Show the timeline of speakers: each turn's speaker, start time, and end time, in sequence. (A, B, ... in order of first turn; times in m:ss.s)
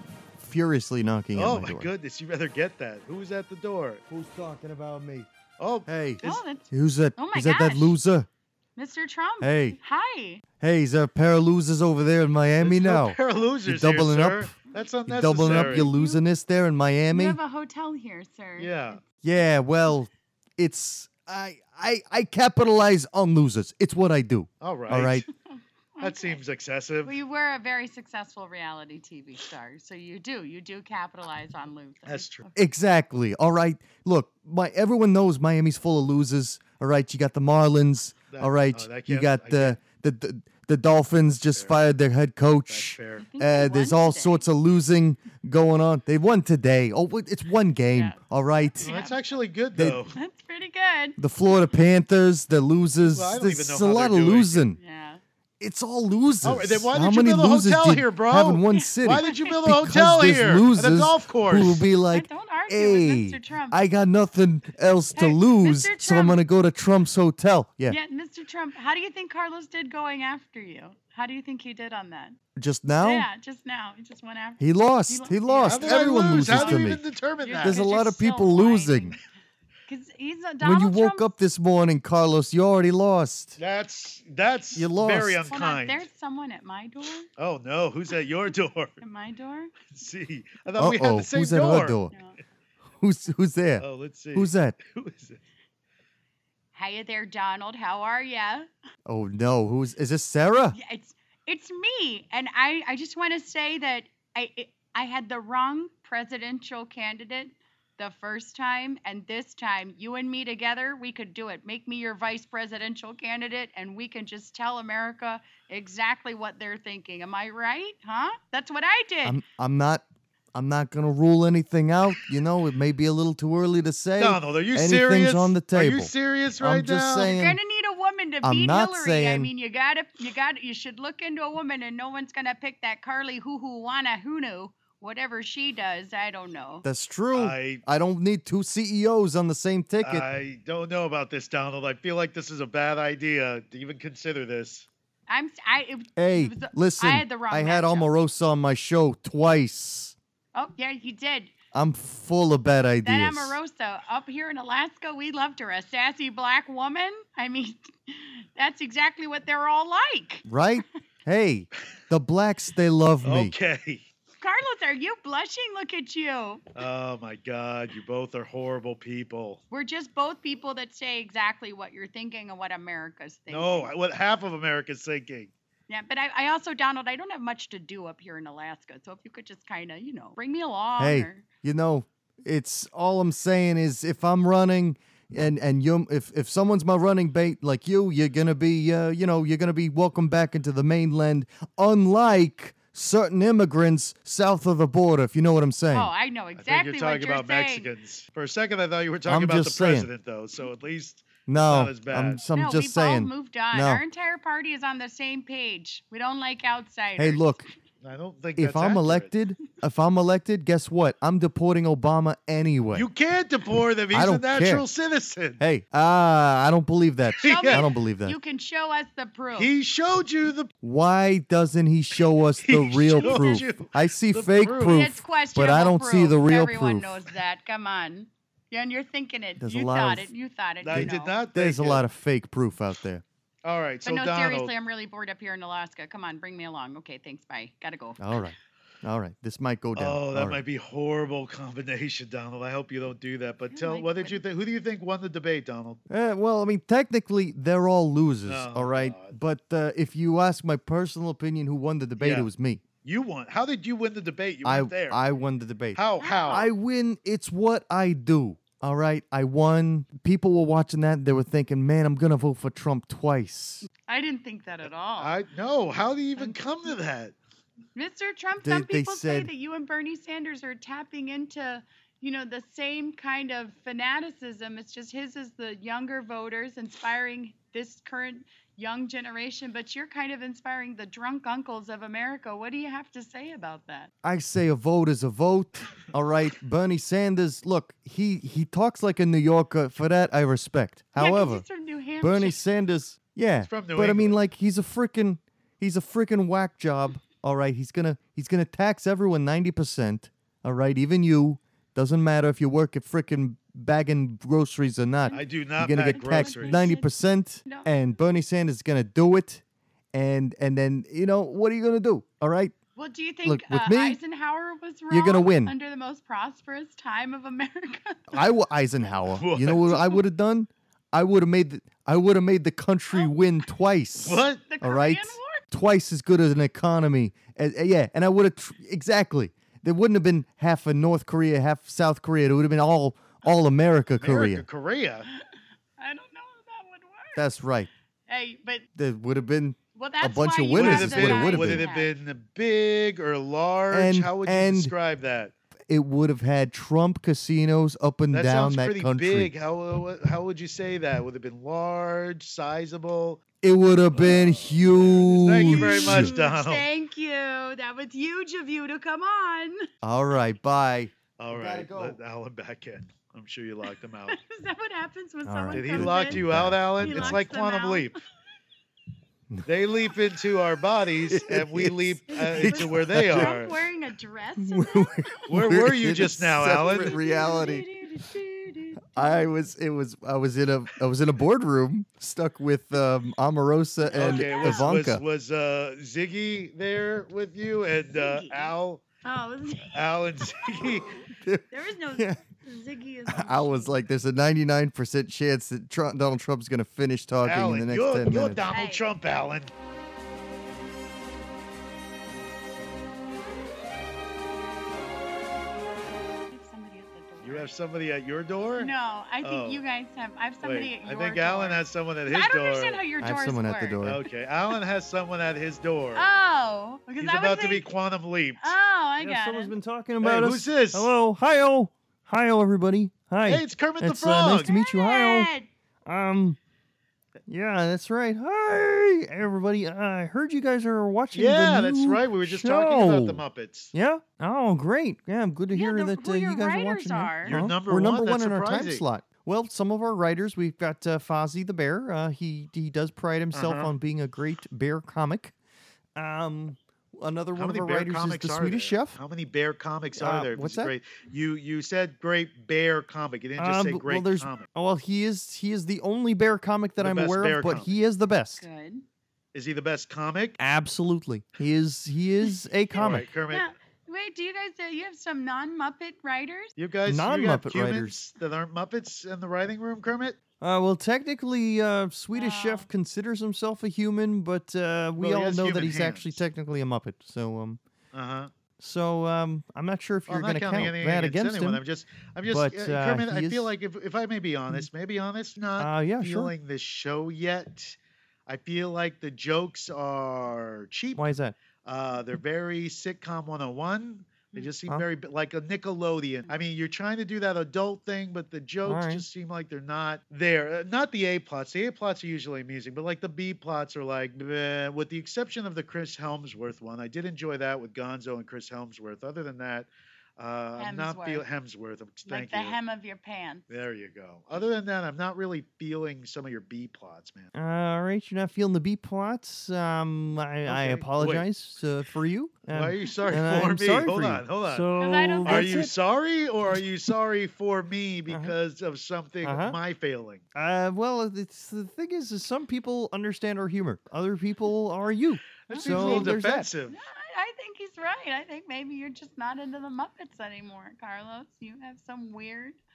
0:00.3-0:01.9 A
0:01.3-0:04.0 B
0:04.1-0:05.3 A
0:05.6-0:06.4 B
0:05.8-0:08.3 A
0:06.2-0:08.0 C
0:08.8-0:10.4 C
0:09.4-0:09.8 A
0:10.6-0:14.5 A
0:12.6-0:15.9 B
0:15.1-0:17.4 A
0:15.5-0:16.2 C
0:17.1-0:19.0 C
0:18.6-0:19.0 B
0:19.2-0:25.2 A
0:24.6-0:25.2 B
0:25.5-0:26.4 C
0:26.0-0:27.1 B
0:27.0-0:32.5 C
0:32.0-0:32.5 B
0:32.5-0:48.9 A
0:38.3-0:39.8 B
0:41.3-0:41.8 B
0:42.7-0:43.2 B
0:43.2-0:44.4 C
0:47.9-0:48.2 C
0:48.7-0:49.2 C
0:48.8-0:50.2 B
0:49.7-0:50.0 A
0:50.1-0:51.2 C
0:51.2-0:54.8 A
0:53.0-0:54.6 B
0:54.7-0:55.2 C
0:55.6-1:08.0 A
0:56.4-1:01.8 B
0:58.7-0:59.5 C
1:02.1-1:03.8 C
1:05.1-1:06.4 C
1:07.9-1:12.4 C
1:12.6-1:13.3 A
1:13.0-1:19.2 C
1:14.6-1:17.0 A
1:15.7-1:17.8 B
1:17.6-1:19.2 A
1:19.9-1:21.3 C
1:20.6-1:23.6 A
1:23.6-1:26.1 B
1:24.8-1:25.5 A
1:25.4-1:27.3 C
1:27.4-1:29.0 B
1:29.0-1:29.7 C
1:29.9-1:32.0 B
1:30.8-1:32.1 A
1:32.1-1:32.4 C
1:33.0-1:34.8 A
1:33.8-1:35.4 B
1:36.7-1:38.7 C
1:39.0-1:40.8 A
1:40.7-1:59.4 C
1:59.2-2:00.0 A
2:00.5-2:07.6 A
2:04.2-2:07.3 B
2:07.2-2:16.8 C
2:08.4-2:09.5 A
2:16.8-2:20.2 A
2:17.3-2:17.8 B
2:20.0-2:24.9 B
2:25.3-2:28.1 C
2:26.2-2:30.1 A
2:30.5-2:31.5 C
2:31.7-2:33.6 A
2:33.0-2:40.4 C
2:40.5-2:43.5 A
2:43.2-2:44.0 B
2:44.4-2:46.6 C
2:46.7-2:49.6 B
2:49.7-2:53.9 C
2:53.5-2:55.5 B
2:55.9-3:01.4 C
3:01.0-3:16.1 A
3:15.9-3:17.9 C
3:16.6-3:22.4 B
3:19.2-3:20.1 A
3:21.4-3:24.0 A
3:22.5-3:27.6 C
3:27.2-3:27.7 A
3:28.0-3:29.3 B
3:28.6-3:33.1 A
3:32.9-3:35.6 B
3:34.1-3:34.8 A
3:35.6-3:38.4 A
3:37.4-3:37.9 B
3:37.4-3:39.7 C
3:39.5-3:40.7 B
3:40.8-3:47.2 A
3:42.6-3:45.1 B
3:43.2-3:43.6 C
3:44.8-3:51.4 C
3:49.6-3:50.3 A
3:50.8-3:52.0 B
3:50.9-3:53.2 A
3:53.6-3:54.7 B
3:54.0-3:58.5 C
3:58.2-4:00.6 A
4:00.0-4:06.0 B
4:03.7-4:04.4 C
4:06.1-4:12.8 A
4:08.4-4:09.4 B
4:12.2-4:12.5 B
4:13.0-4:15.2 B
4:14.6-4:23.8 A
4:15.9-4:16.7 B
4:16.2-4:16.6 C
4:24.0-4:25.4 C
4:25.2-4:27.3 B
4:26.4-4:26.9 C
4:27.9-4:44.1 C
4:28.6-4:29.5 A
4:44.2-4:51.6 A
4:51.2-4:52.6 C
4:52.2-5:09.6 A
4:53.6-4:54.4 B
5:05.3-5:06.9 B
5:06.0-5:07.1 C
5:07.6-5:07.9 C
5:10.1-5:12.7 A
5:13.0-5:18.4 C
5:13.4-5:14.2 A
5:15.1-5:15.7 A
5:18.3-5:34.6 A
5:19.3-5:20.2 B
5:24.2-5:24.6 B
5:24.7-5:25.6 C
5:34.2-5:35.3 B
5:36.0-5:37.4 C
5:37.3-5:37.9 A
5:38.3-5:38.8 C
5:39.0-5:41.8 A
5:39.9-5:42.1 C
5:40.7-5:45.5 B
5:43.9-5:44.9 A
5:45.9-5:49.5 A
5:48.3-5:53.4 B
5:53.6-5:56.3 A
5:54.1-5:56.8 B
5:55.6-5:59.8 C
6:00.0-6:02.2 A
6:01.4-6:04.4 B
6:04.3-6:06.4 C
6:05.4-6:07.4 A
6:05.7-6:08.1 B
6:07.0-6:08.1 C
6:09.6-6:13.8 B
6:11.3-6:13.6 A
6:12.3-6:15.5 C
6:14.6-6:17.9 A
6:15.5-6:17.2 B
6:16.8-6:19.5 C
6:19.1-6:25.2 A
6:24.0-6:25.0 C
6:24.1-6:29.0 B
6:28.1-6:31.0 C
6:29.9-6:31.1 B
6:31.3-6:32.4 A
6:31.7-6:33.9 C
6:33.3-6:38.6 A
6:37.4-6:39.7 B
6:38.7-6:39.0 C
6:46.5-6:47.7 C
6:47.4-6:48.9 B
6:48.8-6:54.8 C
6:49.4-6:49.8 B
6:50.6-6:53.0 B
6:53.2-6:54.2 A
6:54.0-6:56.3 B
6:56.1-6:57.8 C
6:57.2-6:58.7 B
6:58.6-6:59.7 C
6:59.2-7:05.5 A
7:00.2-7:01.1 B
7:03.4-7:04.7 B
7:04.6-7:05.7 C
7:06.0-7:06.6 A
7:07.5-7:13.4 A
7:11.3-7:13.9 B
7:13.9-7:25.5 A
7:15.7-7:17.6 C
7:17.4-7:19.0 B
7:23.5-7:23.9 B
7:26.2-7:29.2 A
7:27.6-7:34.7 B
7:30.2-7:30.9 A
7:33.6-7:38.6 A
7:37.0-7:38.0 B
7:38.6-7:39.0 C
7:39.5-7:40.6 B
7:40.6-7:43.3 A
7:42.9-7:43.6 B
7:43.5-7:46.7 C
7:46.8-7:50.4 B
7:47.0-7:48.2 A
7:50.6-7:57.8 A
7:52.3-7:52.9 C
7:55.2-7:56.4 B
7:58.1-7:58.5 B
7:58.8-8:01.8 A
8:00.3-8:11.3 B
8:02.5-8:03.7 A
8:05.8-8:06.5 A
8:11.2-8:11.6 A
8:11.8-8:32.8 B
8:18.8-8:19.2 A
8:30.8-8:31.5 C
8:32.3-8:33.7 C
8:33.7-8:37.5 B
8:37.5-8:45.9 A
8:40.6-8:41.5 B
8:42.7-8:44.9 B
8:45.0-8:45.7 C
8:45.4-8:50.4 B
8:48.3-8:48.5 A
8:49.4-8:49.8 A
8:50.5-8:56.7 A
8:55.7-8:57.0 B
8:55.7-8:56.3 C
8:56.9-9:02.8 C